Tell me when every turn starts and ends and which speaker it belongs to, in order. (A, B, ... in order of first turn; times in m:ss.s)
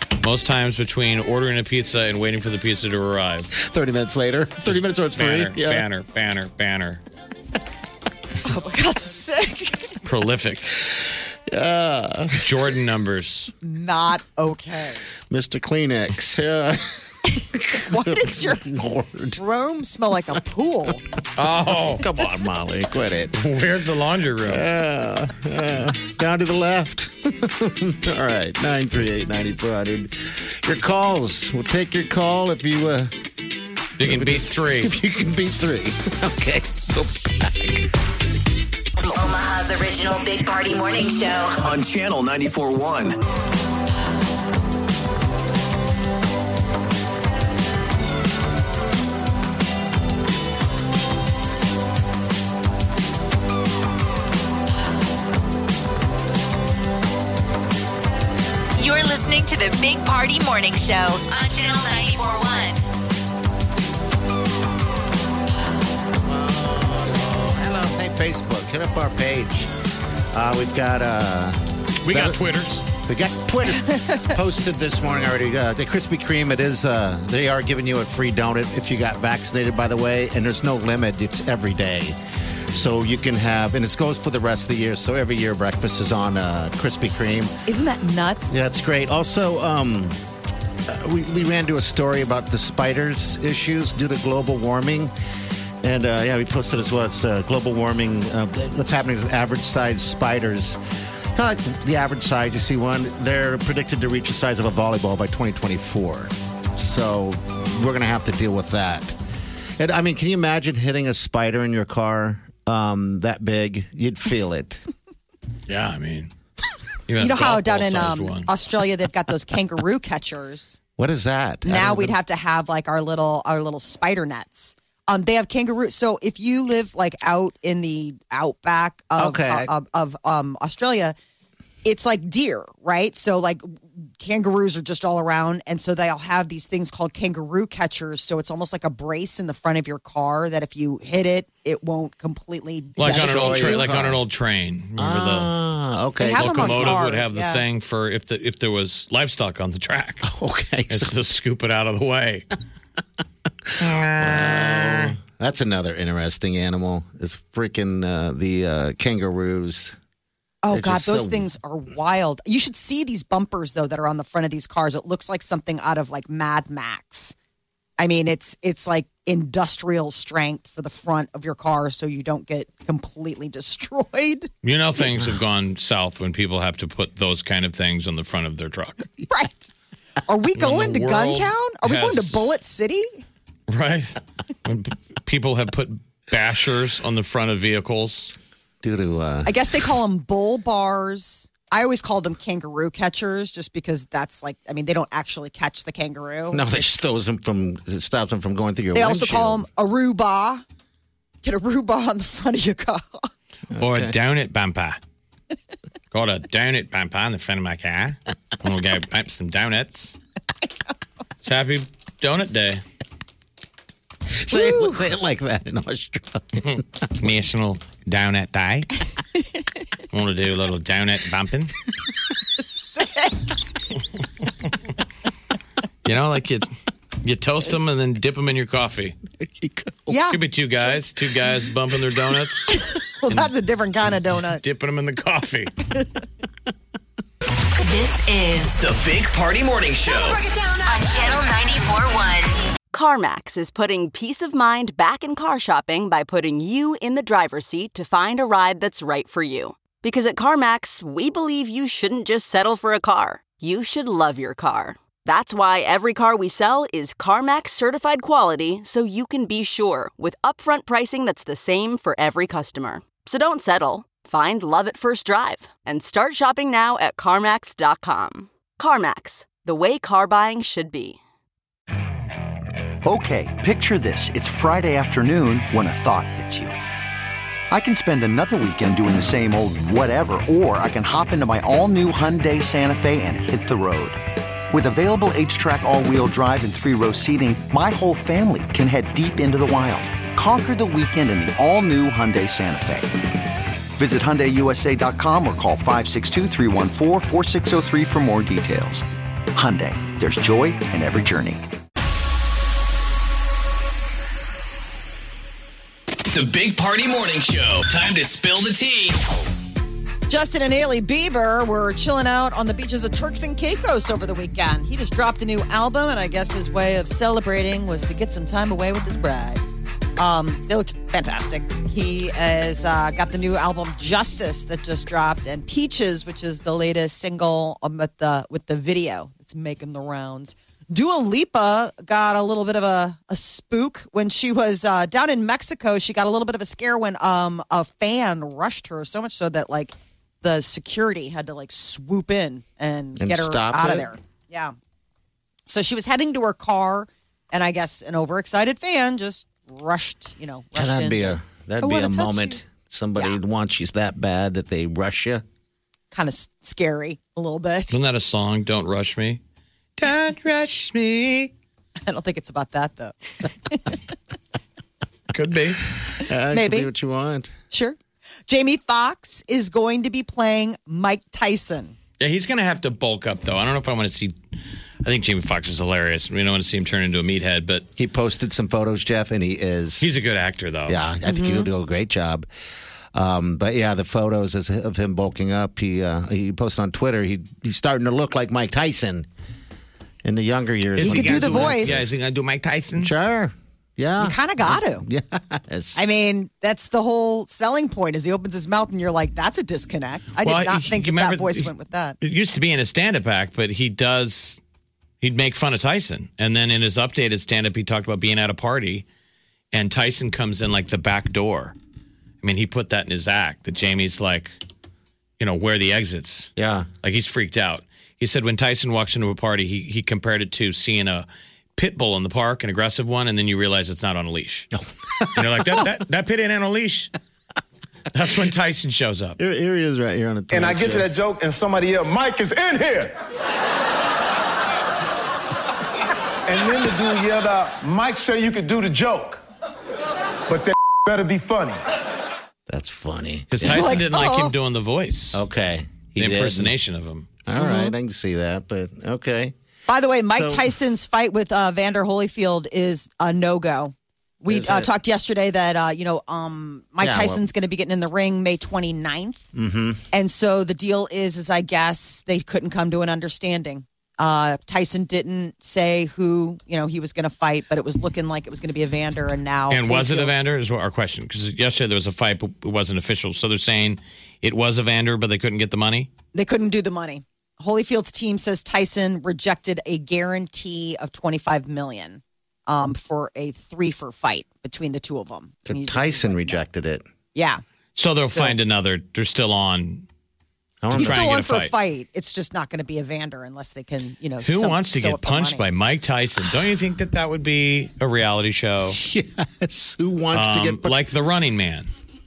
0:00.2-0:03.5 A
0:03.5-0:05.9 B
0:04.7-0:07.0 A
0:08.4-0:10.0 C
0:10.0-0:10.7 A
0:11.5-0:12.6 B
0:12.4-0:13.5 A
0:13.6-0:15.0 C
0:15.3-0:16.8 B
0:17.3-0:18.7 C
0:17.5-0:19.4 B
0:19.4-0:21.0 C
0:21.4-0:22.1 A
0:21.7-0:23.5 B
0:23.4-0:24.7 A
0:24.5-0:33.2 B
0:34.0-0:34.9 A
0:34.0-0:37.9 B
0:39.1-0:41.6 D
0:41.6-0:43.2 E
0:58.8-1:02.8 D
1:06.2-1:09.7 B
1:10.3-1:12.4 B
1:12.0-1:12.9 A
1:13.0-1:22.2 B
1:13.8-1:14.2 C
1:22.7-1:27.6 B
1:27.7-1:28.6 C
1:28.5-1:30.2 B
1:30.9-1:35.1 B
1:35.8-1:40.8 B
1:41.4-1:49.2 B
1:49.8-1:54.8 B
1:55.7-1:56.3 A
1:57.1-1:58.5 A
1:57.2-2:00.8 C
2:01.0-2:02.2 B
2:01.6-2:11.2 C
2:09.2-2:09.7 B
2:11.8-2:23.9 C
2:23.0-2:25.5 A
2:23.0-2:24.2 B
2:25.0-2:27.1 B
2:26.2-2:27.6 C
2:26.2-2:30.2 A
2:30.2-2:31.2 B
2:30.9-2:32.5 A
2:33.7-2:40.0 B
2:33.8-2:35.1 A
2:40.6-2:47.4 C
2:40.7-2:41.5 B
2:48.0-2:54.5 C
2:54.6-2:59.1 A
2:59.3-2:59.7 C
3:00.3-3:03.2 C
3:00.6-3:02.4 A
3:03.7-3:08.4 A
3:08.8-3:09.6 B
3:09.4-3:17.0 C
3:16.5-3:19.7 B
3:18.9-3:20.6 C
3:21.4-3:23.3 C
3:23.7-3:24.2 B
3:23.8-3:25.0 A
3:26.1-3:30.2 A
3:31.4-3:32.8 A
3:34.3-3:36.8 B
3:34.5-3:35.0 C
3:36.6-3:38.9 A
3:40.1-3:41.7 A
3:42.6-3:43.4 C
3:46.0-3:46.7 A
3:47.2-3:49.2 A
3:49.4-3:50.2 B
3:50.1-3:50.4 C
3:50.3-3:53.5 A
3:52.7-3:54.6 C
3:54.5-3:55.8 A
3:57.8-3:58.7 D
3:58.7-4:00.4 E
4:00.7-4:02.6 D
4:02.9-4:31.2 F
4:33.0-4:36.8 G
4:37.7-4:53.1 G
4:54.0-5:01.6 G
5:06.3-5:09.2 E
5:10.3-5:19.6 C
5:20.2-5:44.8 C
5:43.2-5:44.1 B
5:45.7-5:52.6 C
5:50.7-5:55.4 B
5:56.1-5:58.0 C
5:57.9-5:59.4 A
6:00.0-6:01.5 A
6:02.1-6:03.2 C
6:03.7-6:04.0 C
6:05.3-6:05.8 A
6:06.2-6:07.5 B
6:06.5-6:06.9 C
6:07.7-6:08.0 C
6:08.5-6:12.0 C
6:12.2-6:14.3 A
6:15.0-6:17.9 A
6:18.0-6:20.1 B
6:20.0-6:21.0 A
6:20.9-6:22.5 B
6:21.3-6:21.7 C
6:23.1-6:29.3 B
6:30.2-6:32.1 B
6:31.0-6:33.1 A
6:31.0-6:32.1 C
6:33.0-6:36.0 B
6:34.2-6:35.0 C
6:36.0-6:42.2 C
6:40.4-6:41.7 A
6:42.2-6:44.6 A
6:45.2-6:49.0 A
6:49.7-6:51.8 A
6:52.4-6:54.6 A
6:55.4-7:04.7 A
6:56.6-6:56.9 B
7:04.8-7:05.8 B
7:05.3-7:07.1 A
7:08.1-7:09.4 A
7:09.4-7:11.1 B
7:10.5-7:13.2 H
7:16.5-7:19.4 H
7:20.5-7:21.8 H
7:22.7-7:24.0 B
7:23.5-7:25.4 A
7:23.6-7:24.5 C
7:25.3-7:26.7 B
7:26.2-7:27.3 A
7:27.4-7:29.5 B
7:27.6-7:27.9 C
7:29.9-7:39.4 C
7:30.3-7:30.6 B
7:34.5-7:34.9 B
7:37.0-7:37.4 B
7:39.5-7:40.0 B
7:40.1-7:50.5 C
7:49.7-7:56.1 A
7:56.3-8:06.6 C
8:05.7-8:07.0 B
8:07.4-8:07.6 C
8:08.0-8:10.1 A
8:10.8-8:11.4 B
8:10.9-8:15.7 C
8:11.0-8:11.7 A
8:14.4-8:19.0 A
8:18.9-8:21.0 B
8:20.3-8:21.9 A